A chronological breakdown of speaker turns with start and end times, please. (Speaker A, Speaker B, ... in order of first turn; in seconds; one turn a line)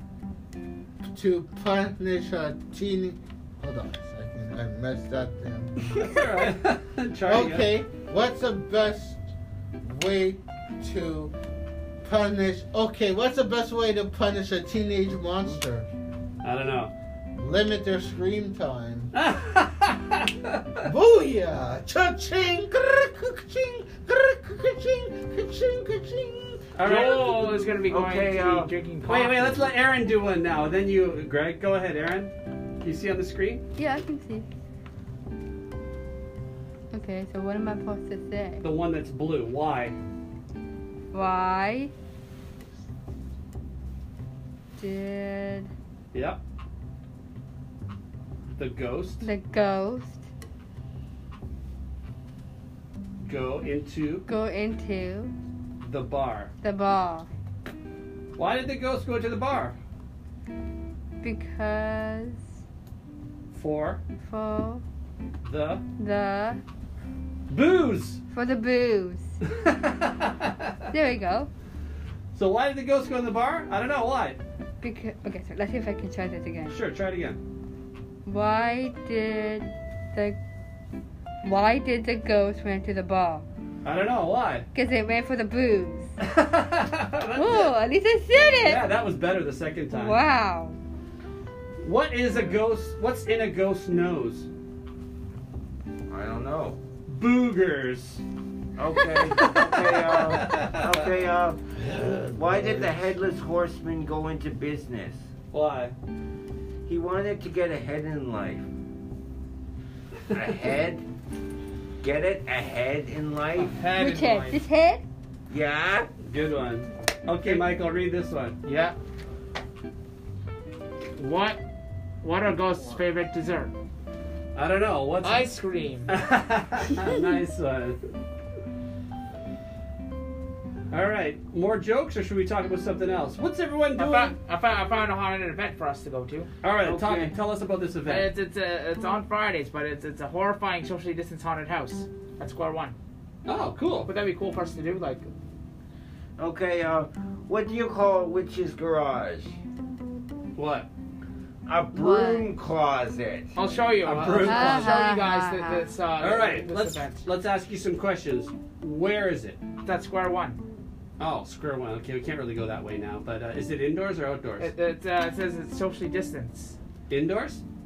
Speaker A: 1.0-6.1
Speaker B: 5.9-7.7
Speaker A: 7.2-9.2
Speaker A: 9.8-11.3
Speaker A: 12.0-15.9
Speaker B: 16.4-16.9
Speaker A: 17.3-19.1
Speaker B: 19.1-20.9
Speaker A: 20.8-26.6
Speaker B: 26.8-27.6
Speaker C: 26.8-29.7
Speaker D: 27.9-28.7
Speaker B: 29.1-33.6
Speaker E: 33.8-34.5
Speaker E: 36.9-38.6
Speaker B: 38.6-40.0
Speaker E: 41.1-41.9
Speaker E: 44.8-45.7
Speaker B: 46.1-46.4
Speaker B: 48.6-49.3
Speaker E: 49.2-50.2
Speaker B: 53.2-54.3
Speaker E: 54.3-55.3
Speaker B: 55.8-56.5
Speaker E: 56.6-57.3
Speaker B: 58.4-59.8
Speaker E: 61.2-62.5
Speaker B: 63.5-64.0
Speaker E: 64.2-64.8
Speaker B: 65.4-65.8
Speaker E: 66.0-66.6
Speaker B: 67.5-68.2
Speaker E: 68.3-69.4
Speaker B: 69.4-70.9
Speaker E: 70.9-71.5
Speaker B: 72.3-74.4
Speaker E: 74.8-76.8
Speaker B: 76.7-77.4
Speaker E: 78.3-80.4
Speaker E: 81.4-83.5
Speaker B: 83.8-84.7
Speaker E: 84.7-86.1
Speaker B: 86.2-87.8
Speaker E: 87.3-88.9
Speaker B: 88.6-90.2
Speaker E: 89.9-90.8
Speaker B: 91.8-94.5
Speaker D: 96.1-96.8
Speaker B: 97.1-98.2
Speaker D: 98.8-101.7
Speaker B: 99.2-101.1
Speaker B: 102.0-102.9
Speaker D: 102.3-105.3
Speaker B: 105.5-105.9
Speaker D: 106.9-108.7
Speaker D: 110.3-111.0
Speaker D: 112.0-113.8
Speaker C: 113.6-114.6
Speaker B: 113.8-114.5
Speaker E: 113.9-115.0
Speaker D: 115.5-116.1
Speaker B: 116.2-118.6
Speaker C: 118.7-119.0
Speaker C: 121.2-121.6
Speaker C: 122.2-123.7
Speaker B: 124.5-125.5
Speaker C: 125.2-126.2
Speaker B: 126.1-128.0
Speaker B: 130.9-134.3
Speaker C: 134.0-136.5
Speaker B: 136.6-138.3
Speaker D: 136.8-137.3
Speaker C: 138.1-143.0
Speaker B: 143.5-144.1
Speaker C: 144.1-145.3
Speaker D: 146.4-149.5
Speaker B: 150.6-150.9
Speaker D: 151.7-153.6
Speaker E: 151.9-152.5
Speaker C: 153.6-157.3
Speaker B: 154.0-155.0
Speaker E: 154.3-155.9
Speaker B: 156.2-159.6
Speaker C: 159.8-160.6
Speaker B: 161.2-164.7
Speaker C: 164.6-166.8
Speaker B: 167.1-167.6